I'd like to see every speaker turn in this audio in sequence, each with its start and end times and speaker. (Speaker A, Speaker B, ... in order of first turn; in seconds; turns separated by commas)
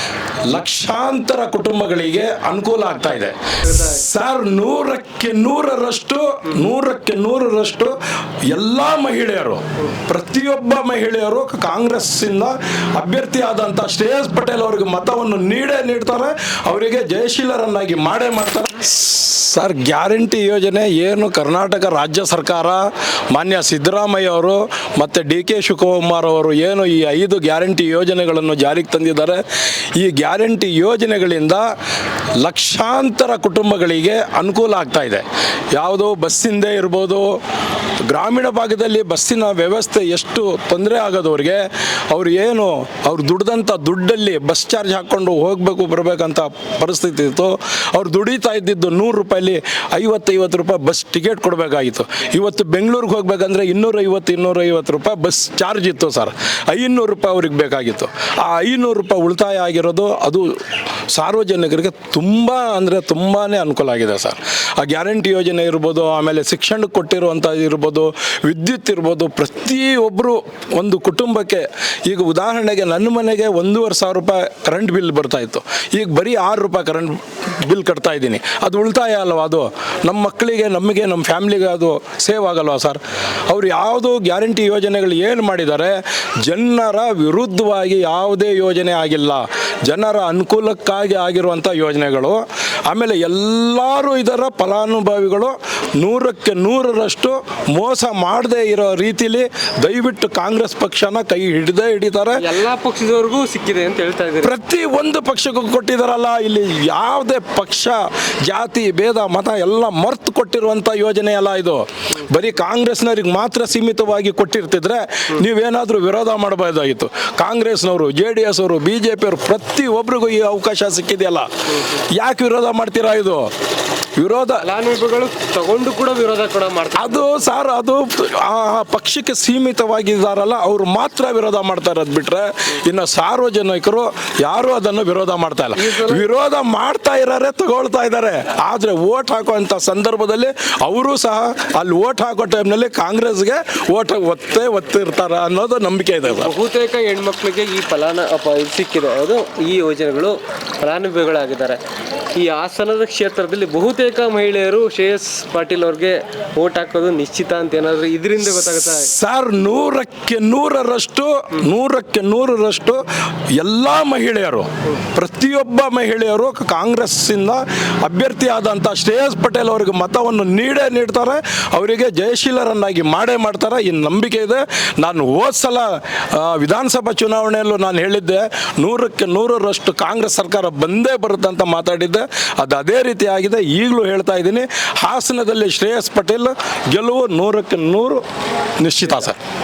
Speaker A: 0.5-8.0, Speaker B: 3.7-4.0, Speaker A: 8.5-29.4, Speaker A: 29.9-31.7, Speaker A: 32.4-37.4, Speaker A: 38.0-60.6, Speaker A: 61.1-102.5, Speaker B: 102.3-104.5, Speaker A: 104.4-123.5, Speaker A: 124.2-124.7, Speaker B: 124.6-127.4, Speaker A: 127.0-146.5, Speaker B: 135.8-136.3, Speaker B: 146.2-151.8, Speaker B: 152.3-159.1, Speaker A: 158.4-188.2, Speaker A: 188.8-189.4